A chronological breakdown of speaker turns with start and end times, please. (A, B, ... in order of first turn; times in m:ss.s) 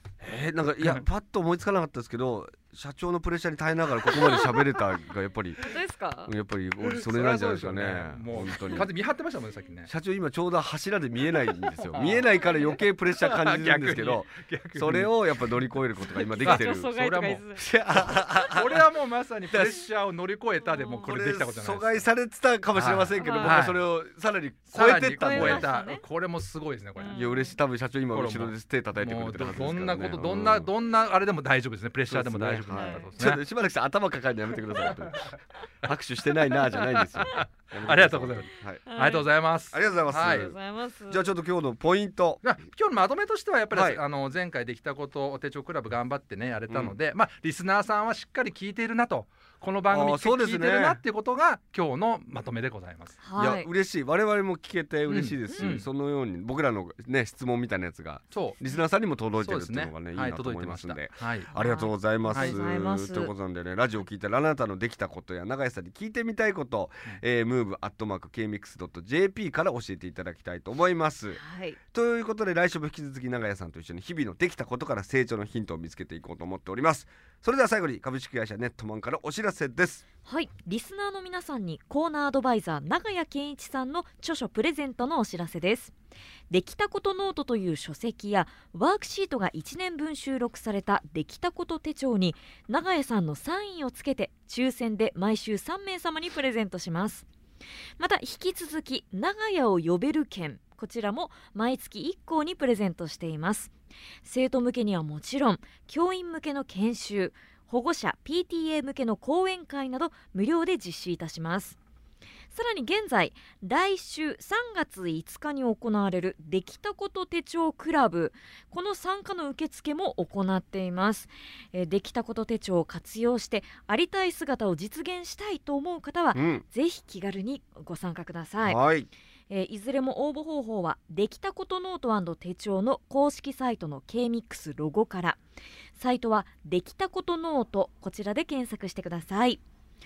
0:00.2-0:05.7 A
0:04.1-0:04.8 B
0:05.6-0:06.3 B
0:06.2-0:08.9 A
0:06.8-0:09.9 C
0:09.9-0:17.0 A
0:11.8-0:15.7 C
0:12.4-0:12.8 B
0:16.0-0:17.6 B
0:16.4-0:22.1 C
0:17.6-0:18.9 A
0:19.5-0:19.8 A
0:20.6-0:21.2 B
0:21.0-0:25.7 A
0:22.7-0:23.9 C
0:23.2-0:23.6 B
0:24.7-0:27.2 C
0:25.2-0:26.0 B
0:27.0-0:27.6 B
0:27.1-0:30.7 A
0:28.1-0:33.4 C
0:32.1-0:38.8 A
0:32.7-0:33.1 B
0:34.6-0:35.3 C
0:36.3-0:40.5 C
0:38.9-0:39.3 B
0:39.7-0:40.6 A
0:40.1-0:41.3 B
0:41.1-0:42.4 A
0:42.4-0:53.2 C
0:43.7-0:44.0 A
0:46.7-0:47.0 A
0:49.9-0:51.0 A
0:53.2-0:53.7 B
0:53.4-1:11.4 A
0:55.1-0:55.9 C
0:55.5-0:55.8 B
0:58.3-0:58.6 C
0:59.4-1:01.5 C
1:01.6-1:03.3 B
1:02.3-1:02.6 C
1:11.3-1:11.8 B
1:11.9-1:20.0 A
1:20.2-1:25.9 B
1:26.5-1:37.2 B
1:38.0-1:43.7 B
1:44.2-1:51.8 B
1:52.5-2:08.8 B
2:06.3-2:06.6 A
2:08.6-2:09.1 A
2:09.5-2:15.4 B
2:15.9-2:19.6 B